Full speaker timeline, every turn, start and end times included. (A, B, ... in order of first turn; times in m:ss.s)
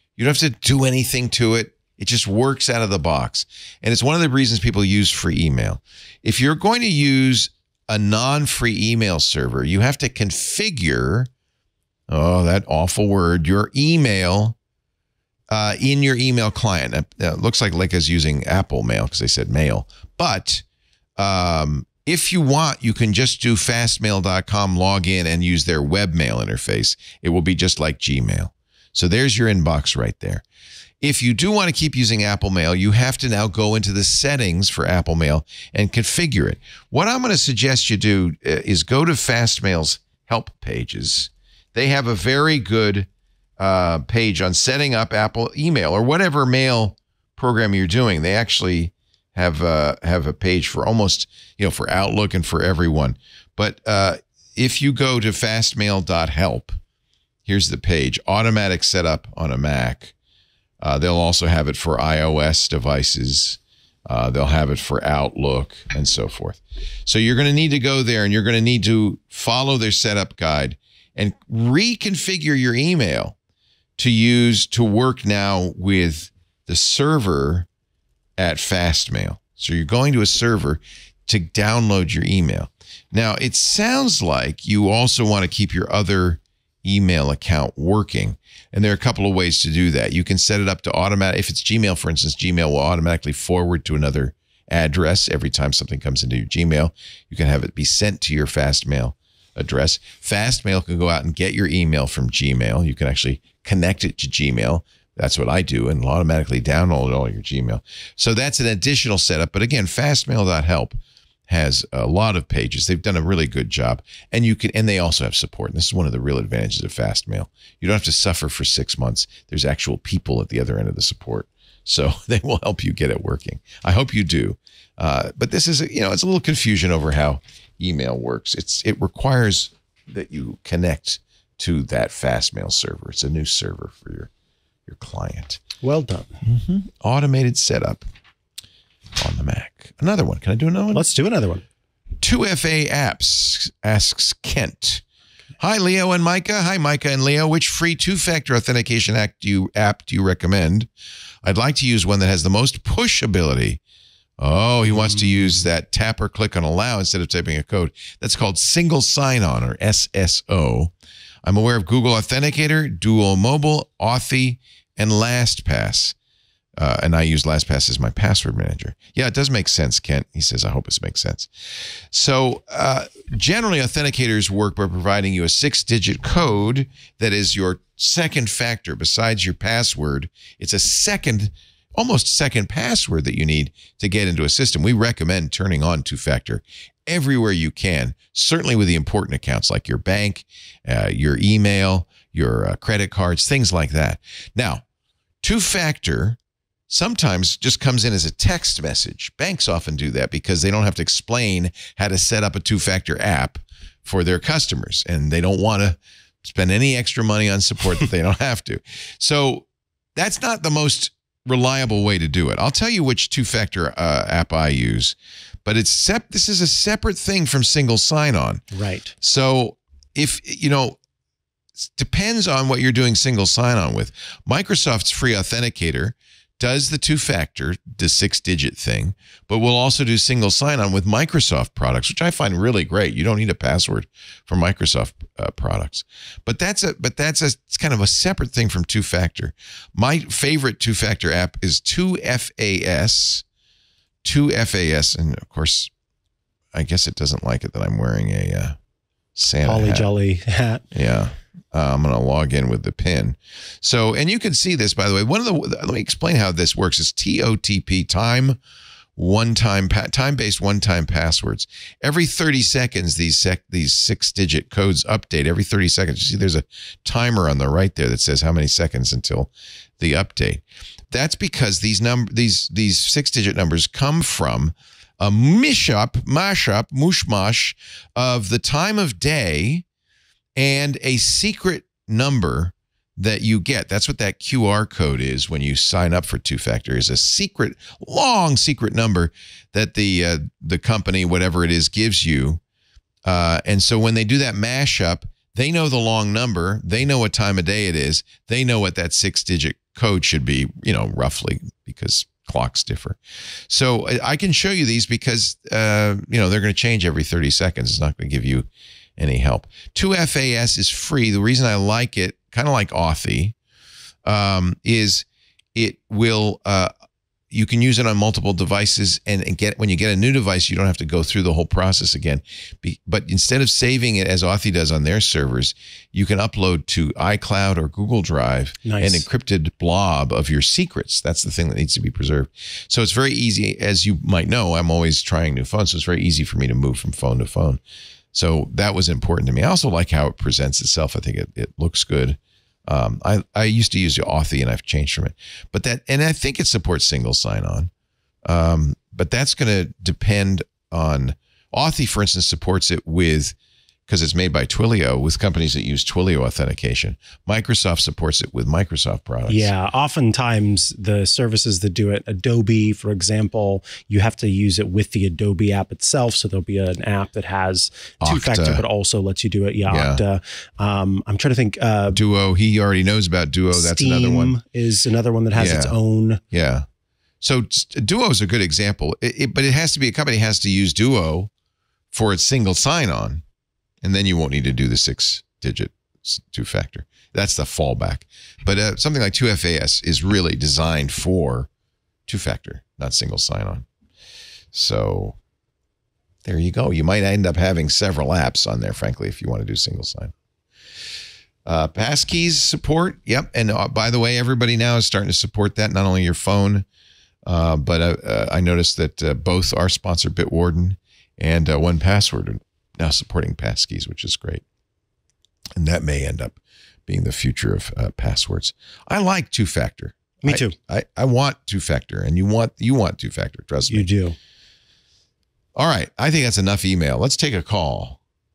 0:00.2-0:11.3 A
0:12.1-0:14.6 A
0:15.5-0:20.6 A
0:21.2-0:30.4 A
0:31.0-0:43.1 A
0:43.6-0:56.8 A
0:57.5-1:00.1 A
1:00.8-1:13.4 A
1:14.0-1:17.7 A
1:18.4-2:14.3 A
2:14.9-2:15.6 A
2:15.8-2:16.3 B
2:16.4-2:18.1 A
2:19.2-2:21.1 A
2:20.9-2:21.6 B
2:22.2-2:25.0 A
2:25.6-2:30.9 A
2:31.4-2:33.8 A
2:34.4-2:40.9 A
2:35.0-2:35.2 B
2:41.4-2:46.2 A
2:46.8-2:51.5 A
2:52.1-3:14.8 A
3:15.4-3:16.4 A
3:16.9-3:38.6 A
3:38.7-3:39.1 B
3:39.2-3:41.0 A
3:42.0-4:03.4 A
4:04.2-4:05.9 A
4:06.7-4:08.8 A
4:09.4-4:10.1 A
4:09.6-4:10.8 B
4:10.9-4:18.6 A
4:19.2-4:39.8 A
4:40.6-4:52.6 A
4:53.2-5:13.6 A
5:14.3-5:16.9 A
5:17.5-5:37.8 A
5:28.8-5:29.3 B
5:38.3-5:47.9 A
5:48.4-5:53.6 A
5:54.1-5:59.7 A
5:59.5-6:12.2 B
6:08.2-6:08.8 A
6:09.9-6:10.2 A
6:12.1-6:14.6 A
6:13.7-6:16.4 B
6:15.5-6:16.0 A
6:16.5-6:16.9 A
6:17.4-6:21.5 A
6:22.1-6:23.4 A
6:24.0-6:31.7 A
6:32.3-6:33.8 A
6:34.7-6:35.4 A
6:36.4-6:40.3 A
6:41.7-6:46.9 A
6:47.5-6:54.6 A
6:55.8-7:04.1 A
7:00.4-7:00.8 B
7:03.9-7:04.4 B
7:05.8-7:08.2 A